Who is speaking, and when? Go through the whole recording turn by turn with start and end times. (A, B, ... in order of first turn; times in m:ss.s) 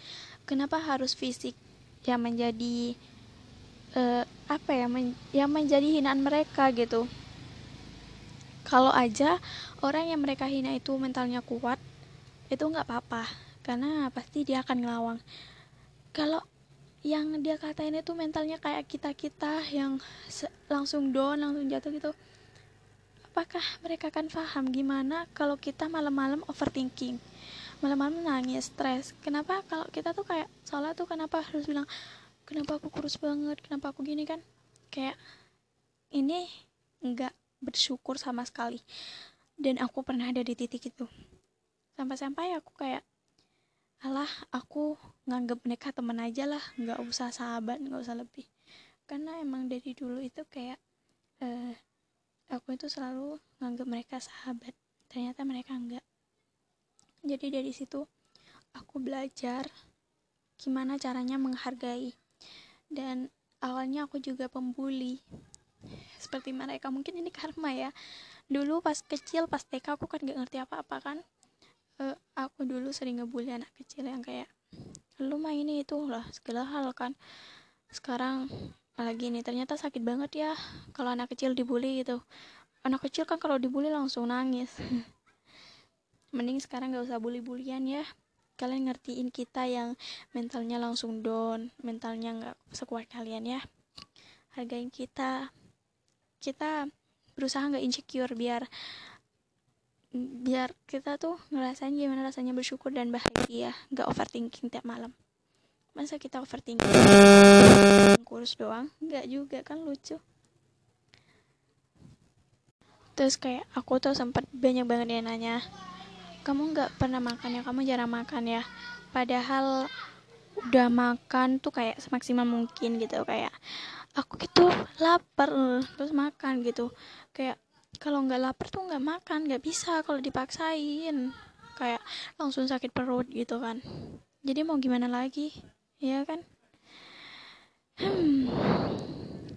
0:00.5-0:02.8 A
0:04.0-0:07.1 A
0:08.7-0:11.8 A
0:12.5-0:15.2 A
0:16.2-0:16.4 A
0:17.1-0:22.1 A
0:23.3-0:27.2 A
0:27.8-0:31.9 A
0:32.5-0:35.2 A
0:36.2-0:36.4 A
0:37.1-0:38.8 A
0:39.6-0:41.1 A
0:42.0-0:43.0 A
0:44.0-0:48.5 A
0:49.1-0:50.8 A
0:51.4-0:51.8 A
0:52.5-0:56.0 A
0:57.3-0:58.0 A
0:58.8-0:59.7 A
1:00.6-1:02.1 A
1:03.0-1:05.2 A
1:06.2-1:07.9 A
1:08.5-1:11.2 A
1:12.0-1:14.5 A
1:15.2-1:17.1 A
1:17.9-1:18.5 A
1:19.0-1:22.2 A
1:22.9-1:24.8 A
1:26.4-1:28.1 A
1:28.6-1:33.6 A
1:34.6-1:35.5 A
1:36.4-1:36.8 A
1:37.4-1:38.7 A
1:40.2-1:45.1 A
1:46.0-1:50.2 A
1:53.2-1:55.6 A
1:56.5-1:59.7 A
2:00.7-2:03.5 A
2:04.2-2:13.8 A
2:14.5-2:15.5 A
2:16.0-2:16.4 A
2:18.0-2:19.3 A